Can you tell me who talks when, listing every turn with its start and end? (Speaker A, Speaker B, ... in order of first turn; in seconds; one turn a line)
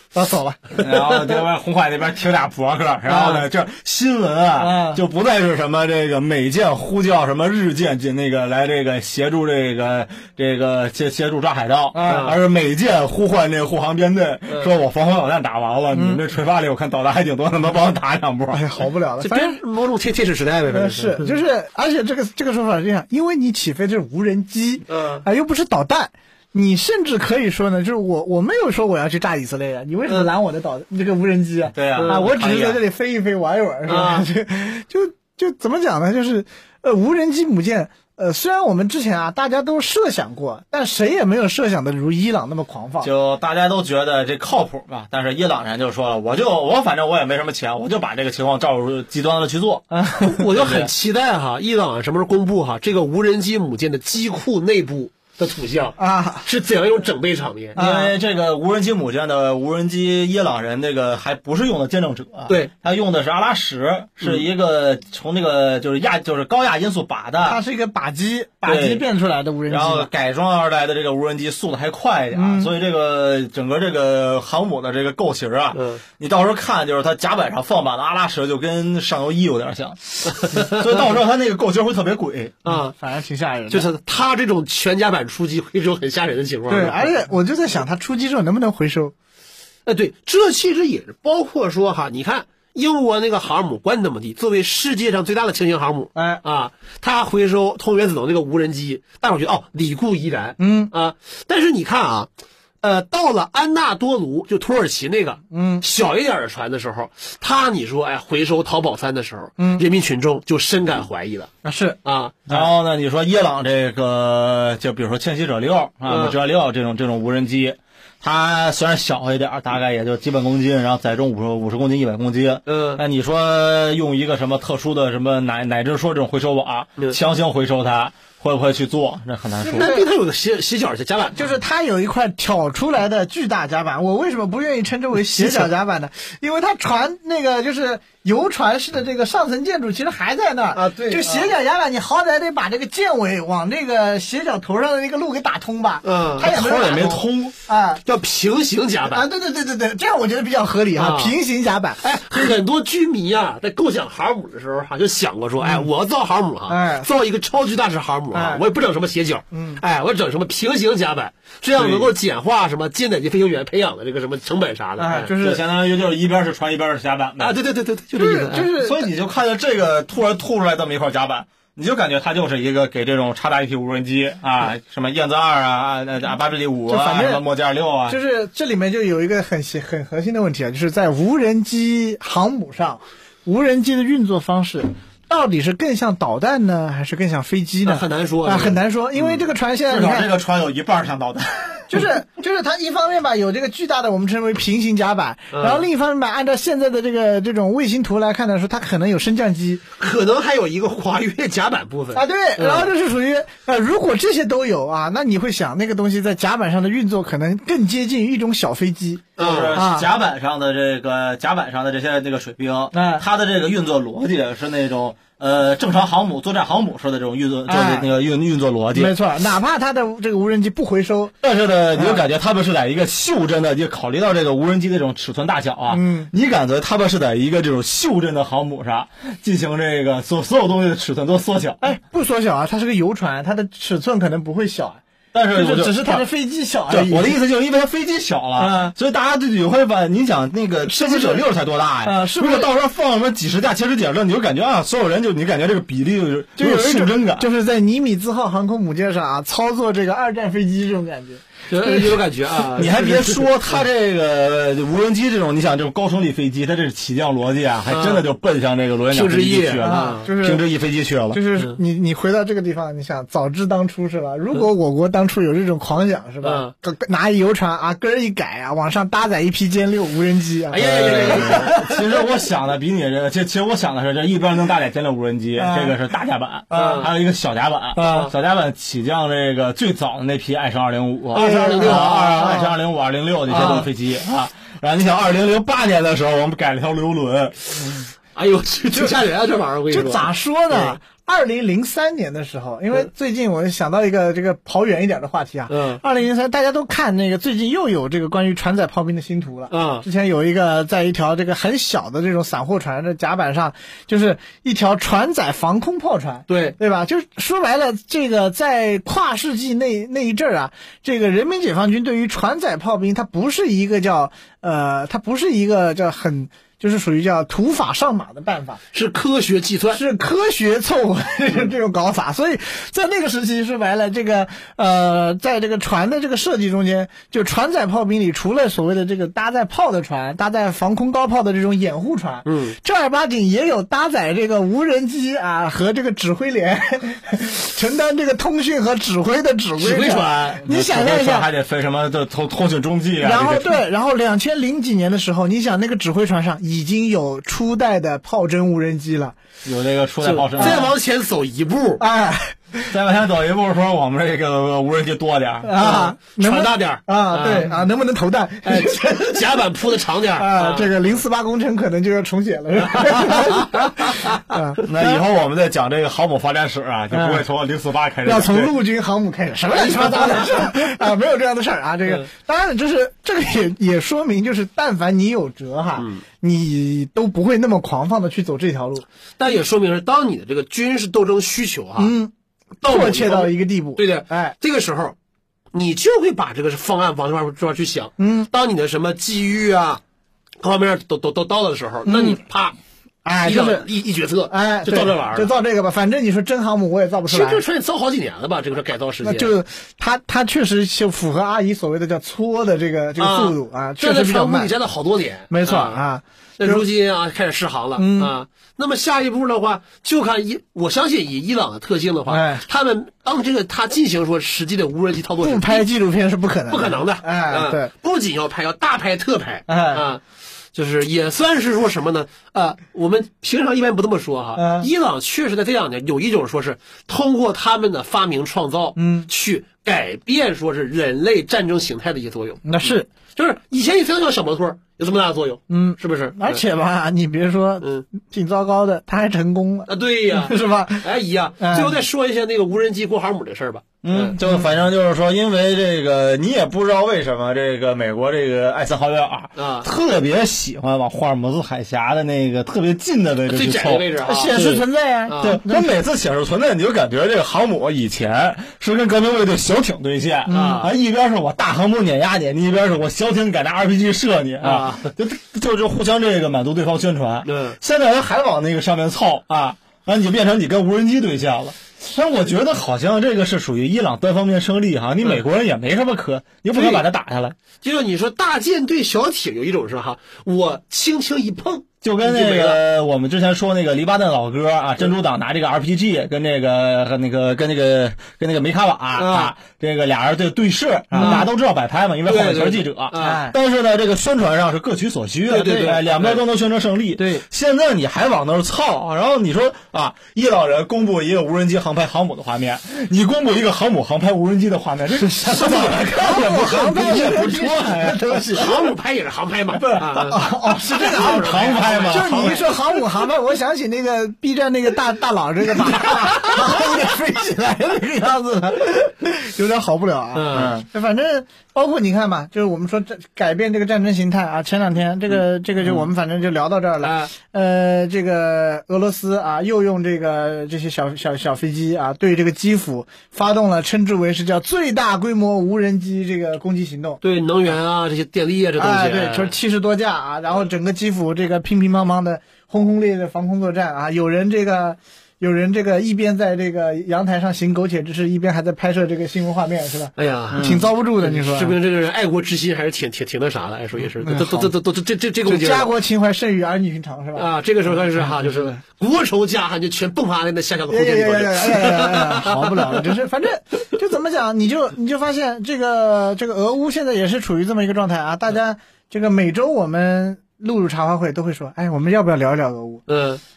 Speaker A: 0.1-0.7
Speaker B: 0.8-18.6
Speaker A: 3.1-3.4
Speaker A: 4.6-5.0
Speaker A: 11.9-12.3
Speaker C: 12.1-12.3
Speaker A: 15.9-16.2
Speaker A: 18.5-19.6
Speaker C: 19.2-21.3
Speaker A: 20.7-43.1
Speaker C: 24.9-25.2
Speaker B: 31.7-32.8
Speaker C: 31.9-32.2
Speaker C: 33.9-34.2
Speaker B: 43.0-50.9
Speaker A: 49.9-50.2
Speaker C: 50.2-57.8
Speaker A: 56.0-56.5
Speaker A: 57.7-58.1
Speaker B: 57.8-67.6
Speaker A: 67.4-70.1
Speaker B: 68.6-69.0
Speaker B: 69.7-82.6
Speaker A: 72.3-72.7
Speaker C: 75.7-76.0
Speaker C: 80.3-80.8
Speaker C: 82.6-82.9
Speaker A: 82.7-83.9
Speaker C: 83.7-87.1
Speaker A: 86.7-89.1
Speaker C: 89.8-102.3
Speaker A: 96.1-96.4
Speaker A: 100.6-100.9
Speaker C: 102.8-111.5
Speaker A: 105.5-105.8
Speaker A: 109.6-109.8
Speaker A: 111.6-112.0
Speaker C: 112.0-112.6
Speaker B: 112.5-130.0
Speaker C: 116.1-116.3
Speaker C: 122.7-123.0
Speaker C: 129.6-131.4
Speaker A: 129.7-130.0
Speaker A: 131.3-148.0
Speaker C: 140.7-141.5
Speaker C: 146.0-146.5
Speaker B: 146.4-147.5
Speaker C: 148.0-149.2
Speaker A: 149.1-152.5
Speaker C: 150.9-151.3
Speaker C: 152.0-165.3
Speaker A: 155.6-155.9
Speaker A: 156.7-157.1
Speaker A: 158.3-158.6
Speaker A: 159.5-159.8
Speaker B: 161.8-162.1
Speaker A: 165.0-165.6
Speaker B: 165.3-167.6
Speaker C: 167.4-168.7
Speaker A: 168.1-169.1
Speaker B: 168.5-178.2
Speaker A: 176.9-177.4
Speaker A: 178.1-190.3
Speaker C: 187.8-188.8
Speaker B: 189.9-192.1
Speaker A: 191.9-199.8
Speaker C: 195.5-195.8
Speaker C: 200.0-202.9
Speaker A: 202.1-210.1
Speaker C: 209.4-209.8
Speaker B: 209.4-219.2
Speaker A: 212.9-213.2
Speaker A: 217.7-218.1
Speaker A: 218.9-221.3
Speaker B: 221.4-231.9
Speaker A: 221.9-222.2
Speaker A: 225.9-226.3
Speaker A: 231.8-237.4
Speaker B: 235.3-236.2
Speaker B: 236.9-247.5
Speaker A: 238.6-238.9
Speaker A: 240.8-241.4
Speaker A: 242.0-242.7
Speaker A: 246.6-252.8
Speaker C: 251.7-253.4
Speaker B: 252.8-261.4
Speaker C: 257.9-258.2
Speaker C: 259.1-260.3
Speaker A: 259.8-260.6
Speaker A: 261.3-271.7
Speaker C: 266.4-266.7
Speaker C: 270.7-272.2
Speaker B: 270.8-287.6
Speaker A: 275.6-276.0
Speaker A: 276.7-277.1
Speaker C: 276.7-277.1
Speaker A: 277.9-278.3
Speaker C: 278.0-278.3
Speaker C: 281.3-282.6
Speaker A: 281.3-282.7
Speaker C: 283.5-283.9
Speaker A: 283.5-283.8
Speaker C: 288.3-291.0
Speaker A: 289.9-318.8
Speaker C: 295.7-296.0
Speaker C: 299.7-300.0
Speaker C: 306.5-306.8
Speaker C: 318.9-320.0
Speaker A: 319.9-341.5
Speaker C: 332.4-332.7
Speaker C: 339.8-340.6
Speaker B: 340.6-343.8
Speaker A: 343.2-349.4
Speaker B: 349.6-350.9
Speaker C: 350.2-352.0
Speaker A: 350.6-350.9
Speaker A: 352.0-352.9
Speaker B: 352.9-355.7
Speaker A: 355.6-359.7
Speaker C: 355.8-357.8
Speaker C: 358.6-361.0
Speaker A: 360.3-365.2
Speaker C: 362.9-363.9
Speaker B: 364.8-368.7
Speaker A: 367.1-367.4
Speaker A: 368.2-379.1
Speaker C: 369.7-370.5
Speaker C: 376.0-376.2
Speaker C: 379.4-382.1
Speaker A: 382.0-384.6
Speaker C: 382.8-385.1
Speaker C: 385.7-390.0
Speaker A: 388.2-388.5
Speaker C: 390.6-392.8
Speaker A: 392.1-392.4
Speaker A: 393.2-393.9
Speaker C: 393.4-395.5
Speaker A: 394.5-397.6
Speaker C: 397.3-399.5
Speaker A: 399.2-404.7
Speaker C: 403.2-406.0
Speaker A: 405.5-406.8
Speaker C: 406.6-415.9
Speaker A: 408.0-408.3
Speaker A: 412.3-412.6
Speaker A: 415.4-417.9
Speaker C: 416.7-420.2
Speaker A: 419.7-420.0
Speaker C: 420.7-436.6
Speaker A: 424.6-424.9
Speaker A: 428.9-429.3
Speaker A: 432.6-433.1
Speaker A: 435.7-441.1
Speaker C: 439.9-444.4
Speaker A: 441.6-442.0
Speaker B: 444.0-454.1
Speaker A: 444.4-444.7
Speaker C: 449.6-449.9
Speaker C: 453.5-455.6
Speaker A: 454.2-455.9
Speaker B: 455.4-477.6
Speaker A: 460.4-460.9
Speaker C: 460.5-460.9
Speaker C: 464.6-465.1
Speaker C: 467.4-467.8
Speaker C: 476.7-477.0
Speaker C: 477.8-482.8
Speaker B: 482.0-508.6
Speaker C: 489.1-489.5
Speaker A: 491.1-491.5
Speaker C: 491.2-491.5
Speaker C: 492.3-493.4
Speaker A: 493.1-493.6
Speaker C: 495.5-496.4
Speaker A: 495.5-495.9
Speaker A: 497.2-497.4
Speaker A: 505.1-508.9
Speaker C: 508.5-513.0
Speaker B: 509.8-510.3
Speaker A: 509.9-537.2
Speaker B: 511.0-512.7
Speaker C: 520.3-520.8
Speaker B: 520.5-520.9
Speaker C: 527.0-527.3
Speaker C: 537.2-539.5
Speaker A: 538.8-551.8
Speaker C: 550.2-555.9
Speaker B: 550.5-550.9
Speaker A: 554.2-554.7
Speaker A: 555.4-558.8
Speaker C: 557.4-563.0
Speaker A: 560.9-573.0
Speaker C: 573.1-573.4